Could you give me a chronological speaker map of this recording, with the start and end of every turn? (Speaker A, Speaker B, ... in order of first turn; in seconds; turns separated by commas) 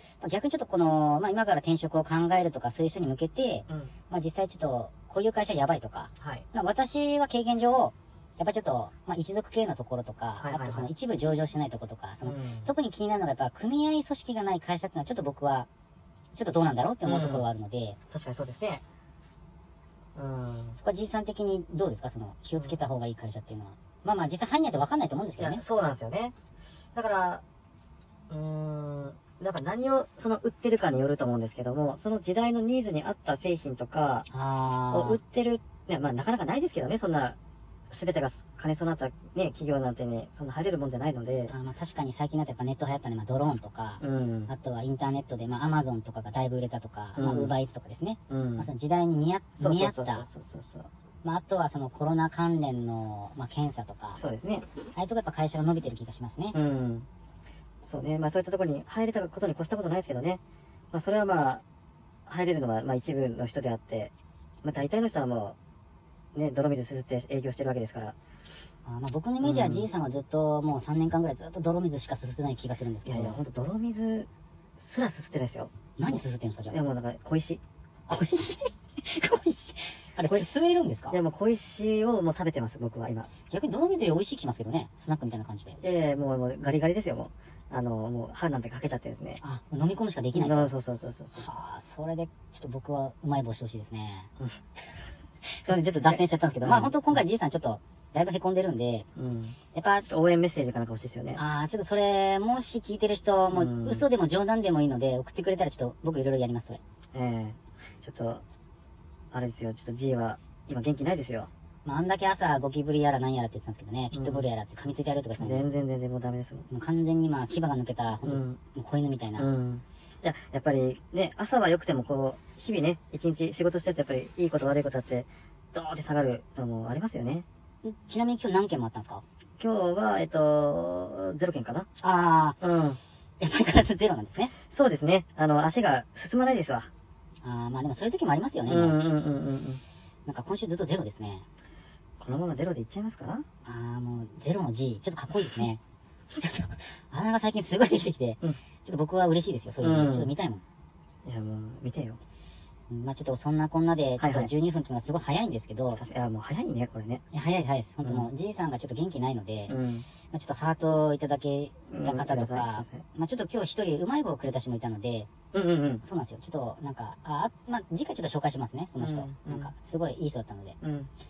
Speaker A: 0.2-15.7, Speaker B: 6.2-6.5, Speaker B: 10.4-10.9, Speaker B: 12.2-12.7, Speaker A: 16.4-18.0, Speaker B: 17.0-17.5, Speaker B: 18.1-18.8, Speaker B: 20.1-20.8, Speaker A: 20.8-25.6, Speaker B: 25.4-26.3, Speaker B: 26.9-27.4, Speaker B: 28.3-34.3, Speaker A: 34.3-35.2, Speaker B: 34.9-37.4, Speaker B: 37.9-41.5, Speaker A: 41.5-50.3, Speaker B: 44.0-44.5, Speaker B: 47.2-47.5, Speaker B: 48.3-48.7, Speaker B: 49.6-50.9, Speaker A: 51.2-54.2, Speaker B: 54.2-54.7, Speaker A: 54.9-56.6, Speaker B: 56.5-57.1, Speaker B: 57.9-60.4, Speaker B: 60.9-61.6, Speaker B: 62.3-64.1, Speaker B: 64.6-65.6, Speaker B: 66.3-68.2, Speaker A: 68.9-73.4, Speaker B: 69.4-69.9, Speaker B: 73.1-77.6, Speaker A: 76.0-76.8, Speaker A: 78.1-81.2, Speaker B: 81.1-83.3, Speaker A: 83.5-85.8, Speaker B: 85.8-89.4, Speaker A: 89.4-90.7, Speaker B: 90.3-91.6, Speaker A: 91.4-94.3, Speaker A: 95.5-99.1, Speaker B: 96.0-97.2, Speaker B: 99.2-101.4, Speaker A: 99.7-100.1, Speaker A: 101.3-106.8, Speaker B: 103.5-104.0, Speaker B: 107.1-108.4, Speaker B: 109.3-111.5, Speaker A: 111.8-115.7, Speaker B: 114.1-114.4, Speaker B: 115.4-116.7, Speaker A: 116.7-119.5, Speaker B: 118.2-118.6, Speaker B: 119.4-127.5, Speaker A: 127.8-129.2, Speaker B: 129.6-131.9, Speaker A: 132.0-132.6, Speaker B: 132.6-133.0, Speaker A: 133.4-134.5, Speaker B: 134.7-136.9, Speaker A: 137.4-139.0, Speaker B: 138.7-139.8, Speaker A: 140.3-141.4, Speaker B: 142.2-143.4, Speaker A: 143.7-145.8, Speaker A: 146.3-150.6, Speaker B: 149.8-150.3, Speaker B: 151.2-152.2, Speaker A: 152.9-156.0, Speaker B: 154.2-154.5, Speaker B: 156.0-157.2, Speaker A: 157.3-159.8, Speaker B: 158.0-158.3, Speaker B: 159.7-160.1, Speaker A: 160.3-165.3, Speaker B: 161.9-163.0, Speaker B: 165.5-166.0, Speaker A: 166.0-170.8, Speaker B: 169.0-169.7, Speaker B: 170.8-171.1